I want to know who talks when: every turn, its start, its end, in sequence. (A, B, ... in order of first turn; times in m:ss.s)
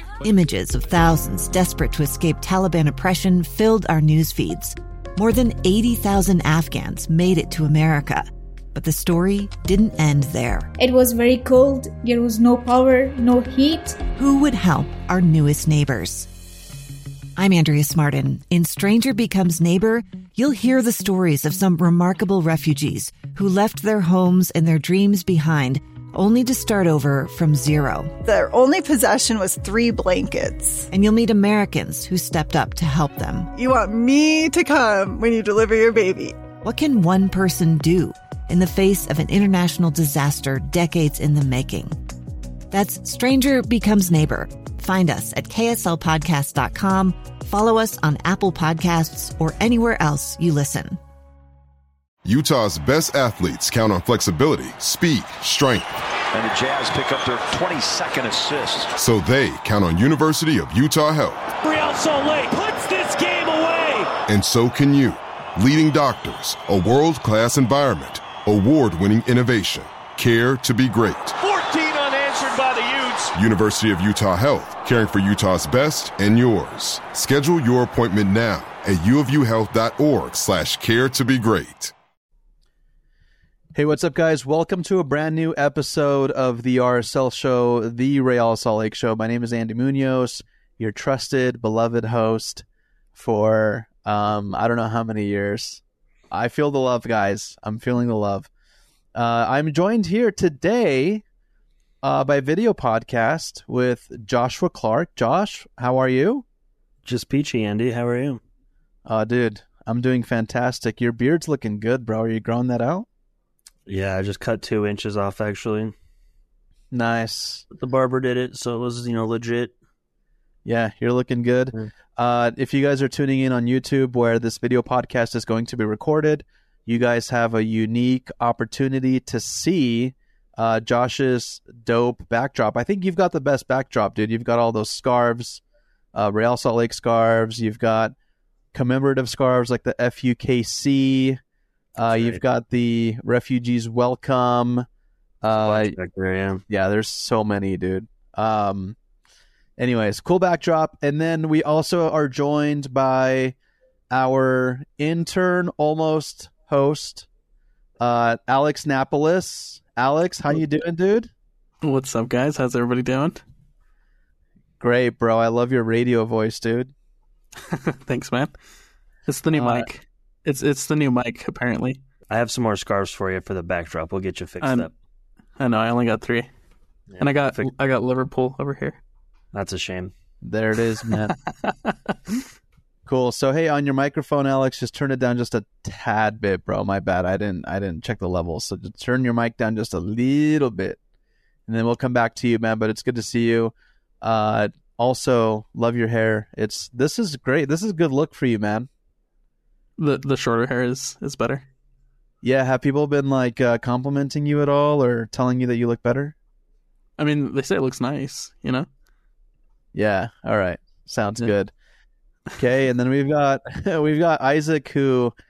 0:00.2-0:10.7 A
0:10.8-0:14.0 B
0:14.1-0:16.3 A
0:17.4-0:28.2 A
0:28.2-0:30.9 C
0:30.9-0:33.5 A
0:33.5-0:36.4 C
0:36.6-0:42.0 A
0:42.7-0:51.0 A
0:52.2-0:56.0 D
0:56.3-0:58.9 E
0:58.9-1:01.4 D
1:01.6-1:04.1 F
1:04.3-1:11.4 D
1:11.4-1:13.3 F
1:13.3-1:21.9 D
1:23.7-1:32.6 G
1:33.1-1:38.5 G
1:39.1-1:41.2 G
1:42.0-1:46.4 G
1:47.0-1:48.4 H
1:49.0-1:53.0 G
1:53.9-1:55.9 H
1:56.9-1:57.6 G
1:57.7-1:59.7 H
2:00.6-2:15.6 G
2:16.1-2:18.1 G
2:18.7-2:21.4 G
2:22.0-2:24.8 G
2:22.1-2:22.4 H
2:25.4-2:25.9 G
2:25.5-2:26.6 H
2:26.7-2:29.0 G
2:29.8-2:33.5 G
2:34.1-2:37.3 G
2:38.0-2:41.3 G
2:41.8-2:43.4 I
2:44.8-2:46.9 G
2:47.6-2:48.5 I
2:49.3-2:52.0 I
2:49.5-2:49.8 G
2:52.3-2:54.9 H
2:54.6-2:54.9 I
2:55.6-2:56.5 I
2:57.1-2:57.7 H
2:57.2-2:59.0 I
2:59.5-3:00.1 H
3:00.4-3:01.3 G
3:01.6-3:02.1 I
3:03.0-3:11.0 G
3:11.7-3:18.9 G
3:20.0-3:21.6 I
3:22.4-3:26.3 G
3:27.2-3:28.9 I
3:29.9-3:31.7 G
3:32.6-3:35.3 G